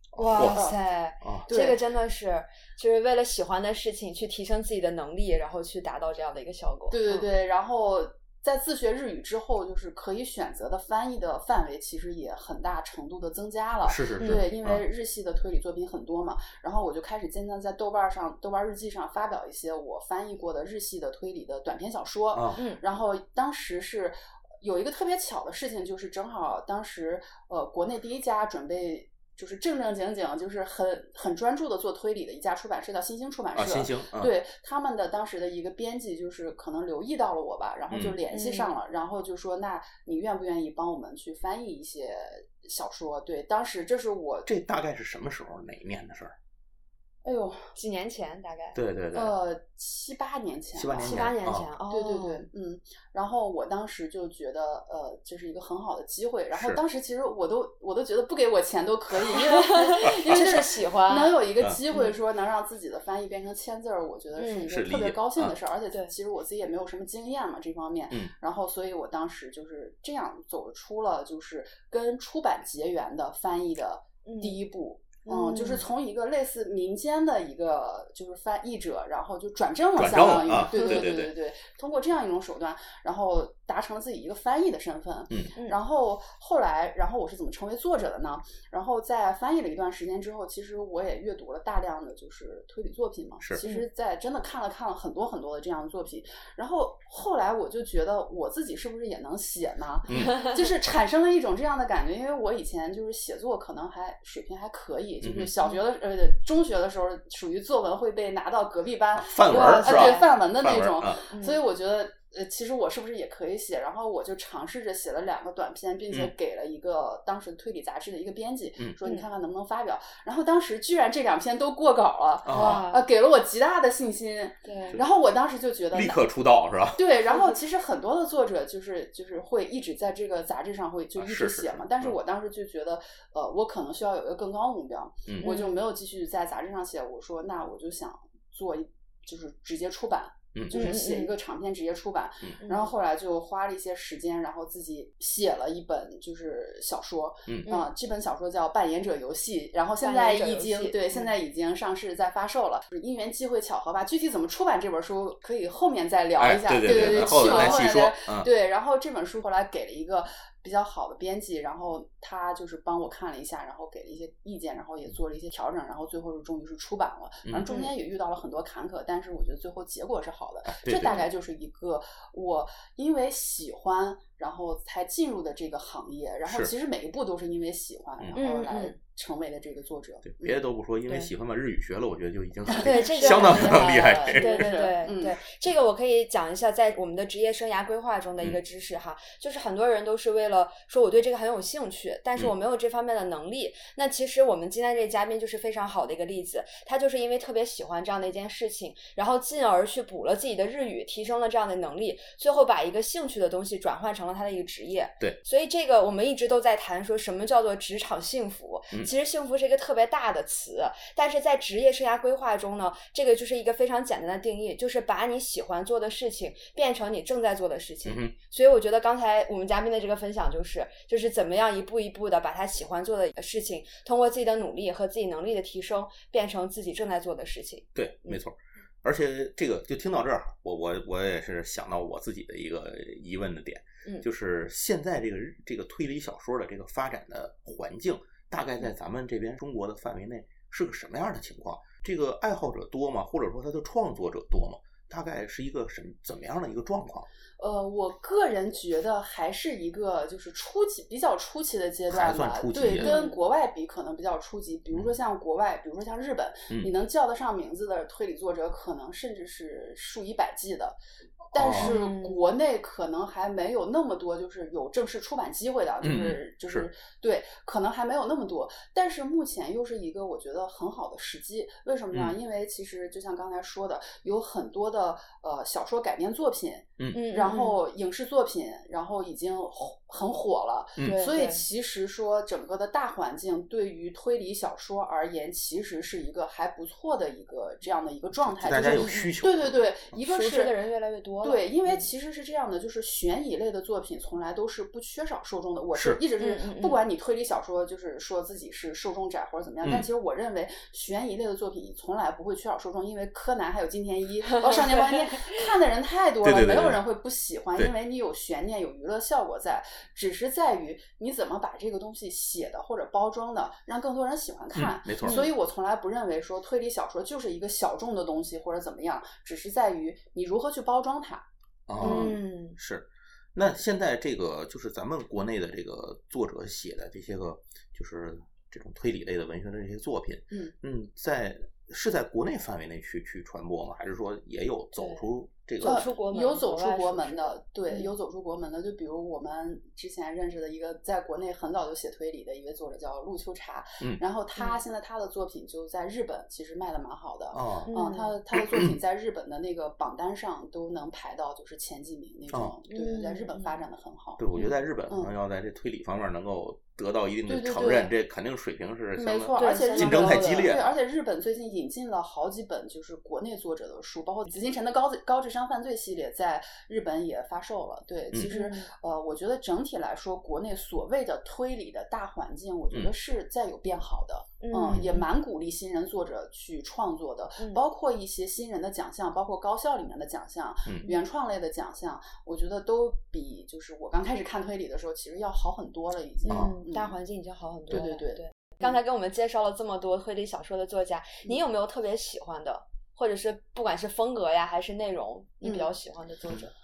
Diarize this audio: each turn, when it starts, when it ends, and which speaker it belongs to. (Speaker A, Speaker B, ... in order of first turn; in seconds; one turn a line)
Speaker A: 0.1-0.6
Speaker B: 0.2-7.3
Speaker C: 0.3-0.8
Speaker C: 1.5-1.8
Speaker C: 6.9-44.5
Speaker A: 13.8-14.8
Speaker B: 14.2-14.5
Speaker A: 22.3-22.6
Speaker A: 33.5-34.3
Speaker A: 37.9-38.2
Speaker B: 38.3-38.8
Speaker A: 44.5-46.4
Speaker C: 47.2-47.7
Speaker B: 47.8-48.8
Speaker A: 48.7-49.4
Speaker C: 49.1-51.3
Speaker A: 50.8-51.7
Speaker B: 51.0-52.5
Speaker C: 51.9-126.2
Speaker A: 56.5-56.8
Speaker B: 59.5-61.4
Speaker B: 64.4-64.7
Speaker A: 64.7-65.5
Speaker B: 74.2-74.6
Speaker B: 75.2-75.8
Speaker A: 80.0-81.3
Speaker B: 80.7-81.1
Speaker A: 100.1-100.4
Speaker A: 105.2-105.5
Speaker A: 109.2-111.2
Speaker B: 109.5-110.3
Speaker B: 111.3-111.6
Speaker A: 122.5-122.8
Speaker B: 122.5-123.1
Speaker B: 124.6-125.0
Speaker A: 125.9-127.0
Speaker C: 127.0-180.6
Speaker A: 131.2-132.2
Speaker A: 135.3-135.5
Speaker B: 135.4-135.8
Speaker A: 140.5-140.9
Speaker B: 140.7-141.3
Speaker B: 142.6-142.9
Speaker B: 150.0-151.3
Speaker A: 156.4-158.5
Speaker B: 156.8-157.8
Speaker A: 170.7-171.3
Speaker A: 176.4-176.7
Speaker B: 178.4-178.9
Speaker A: 180.2-184.8
Speaker C: 182.7-185.4
Speaker B: 182.8-228.4
Speaker A: 218.1-218.3
Speaker A: 227.9-247.3
Speaker C: 247.6-261.0
Speaker A: 252.1-253.2
Speaker B: 252.9-253.4
Speaker A: 261.5-262.0
Speaker C: 261.5-290.7
Speaker B: 261.7-262.4
Speaker A: 266.0-266.9
Speaker B: 277.1-277.8
Speaker B: 281.0-281.6
Speaker A: 288.4-289.8
Speaker B: 288.8-289.4
Speaker B: 290.2-292.0
Speaker C: 291.4-321.4
Speaker A: 295.9-296.2
Speaker B: 296.4-297.0
Speaker A: 299.8-300.1
Speaker B: 304.6-305.2
Speaker A: 306.4-307.0
Speaker A: 314.7-315.5
Speaker B: 315.3-315.5
Speaker A: 321.9-336.1
Speaker C: 322.0-322.4
Speaker B: 322.0-322.8
Speaker B: 335.0-335.2
Speaker B: 335.8-338.1
Speaker C: 335.8-354.4
Speaker A: 347.5-347.9
Speaker B: 347.9-348.3
Speaker B: 352.9-353.8
Speaker A: 354.4-360.9
Speaker C: 357.5-358.1
Speaker C: 359.2-387.2
Speaker B: 359.6-360.7
Speaker B: 368.5-368.9
Speaker B: 374.6-375.3
Speaker B: 386.5-396.7
Speaker A: 386.5-386.7
Speaker C: 387.9-389.0
Speaker C: 395.6-395.9